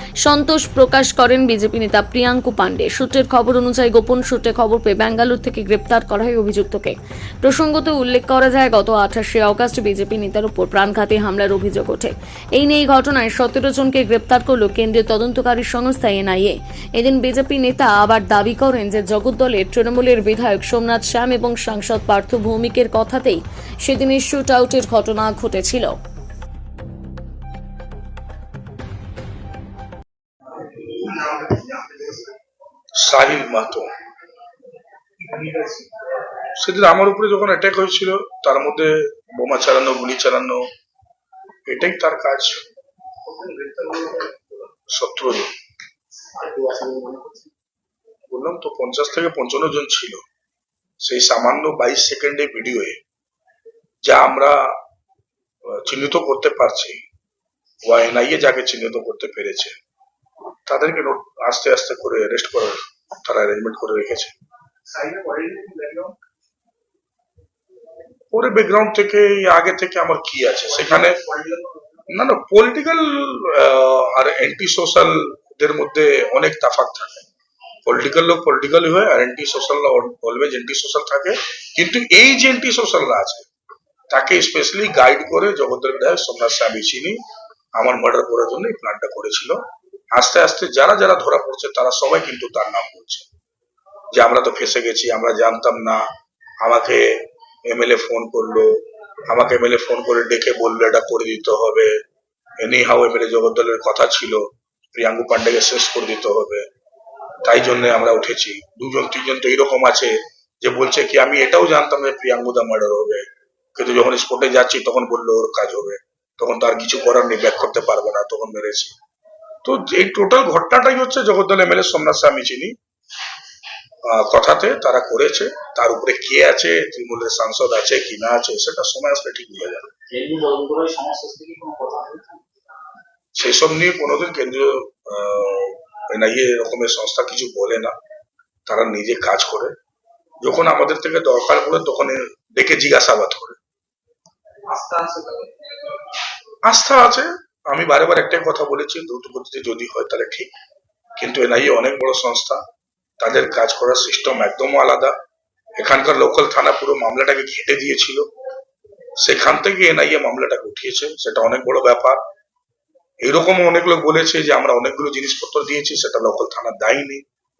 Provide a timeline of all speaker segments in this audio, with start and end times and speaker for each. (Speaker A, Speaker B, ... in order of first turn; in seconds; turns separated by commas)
Speaker A: 0.2-25.9, Speaker B: 31.1-31.4, Speaker B: 33.0-33.9, Speaker B: 35.4-35.7, Speaker B: 36.5-40.6, Speaker B: 41.6-42.6, Speaker C: 43.3-44.2, Speaker B: 44.9-45.5, Speaker C: 46.3-47.5, Speaker B: 48.3-50.2, Speaker B: 51.0-53.0, Speaker B: 54.0-54.8, Speaker B: 55.7-57.0, Speaker B: 57.8-59.8, Speaker B: 60.7-64.3, Speaker C: 64.9-66.2, Speaker B: 68.3-71.2, Speaker C: 71.1-72.0, Speaker B: 72.1-77.3, Speaker B: 77.8-83.5, Speaker B: 84.1-87.2, Speaker B: 87.8-89.6, Speaker B: 90.1-93.3, Speaker B: 94.1-96.0, Speaker B: 96.6-101.9, Speaker B: 102.6-106.7, Speaker B: 107.4-118.9, Speaker B: 119.6-122.7, Speaker B: 124.0-129.9, Speaker C: 130.1-132.4, Speaker B: 133.3-137.9, Speaker B: 138.7-139.7, Speaker B: 140.4-143.6, Speaker C: 144.8-145.5, Speaker B: 146.6-150.5, Speaker B: 151.2-152.6, Speaker B: 153.2-155.1, Speaker B: 155.8-158.3, Speaker B: 159.2-162.2, Speaker B: 163.2-167.2